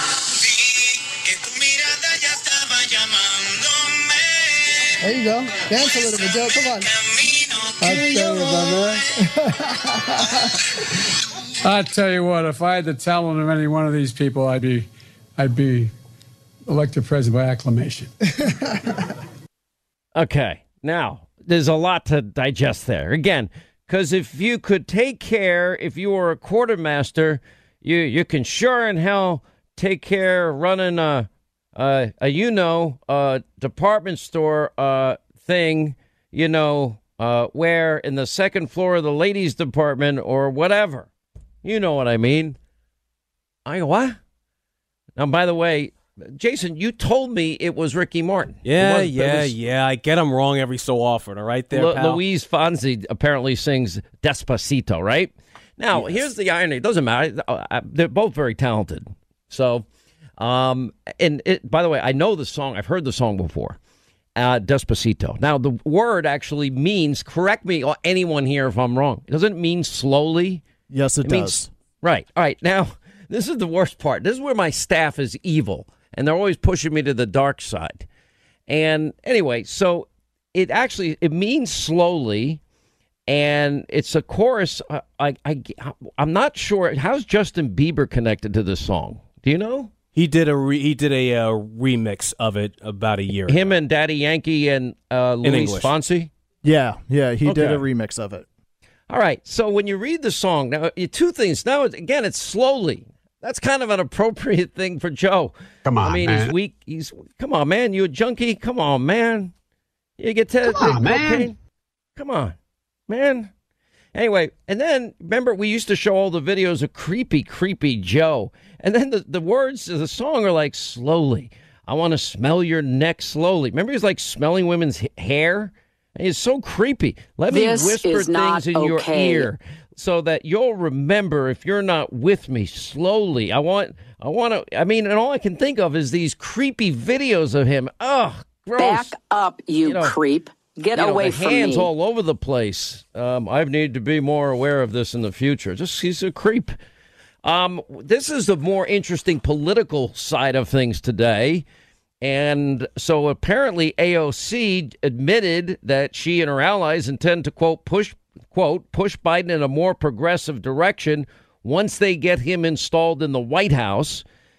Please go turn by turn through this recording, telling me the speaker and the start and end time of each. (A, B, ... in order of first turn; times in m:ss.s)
0:01.2-0:04.6 A
0:05.0-0:06.9 B
0:07.8-0:08.7 B
0:07.8-0:09.1 C
0:09.8-0:10.2 B
0:11.6-0:15.9 C
0:16.6-0:18.1 C
0:20.1-0:41.1 D
0:41.6-0:42.6 D
0:43.6-0:44.2 D
0:45.2-0:49.6 D
0:48.6-0:52.2 E
0:51.7-0:59.9 D
1:00.4-1:03.8 D
1:04.4-1:10.6 D
1:10.9-1:11.7 F
1:11.2-1:18.0 D
1:18.7-1:22.6 D
1:23.3-1:29.9 D
1:30.1-1:33.8 E
1:33.5-1:36.3 D
1:35.4-1:36.0 E
1:36.6-1:38.5 F
1:37.4-1:37.8 D
1:39.1-1:49.5 D
1:45.8-1:46.5 C
1:50.2-1:51.6 D
1:50.6-1:51.5 C
1:52.2-1:52.5 D
1:53.1-1:53.5 D
1:54.1-2:19.2 D
2:07.5-2:09.5 A
2:18.8-2:21.9 A
2:19.8-2:20.2 D
2:20.9-2:26.8 D
2:27.4-2:31.6 D
2:32.2-2:44.2 D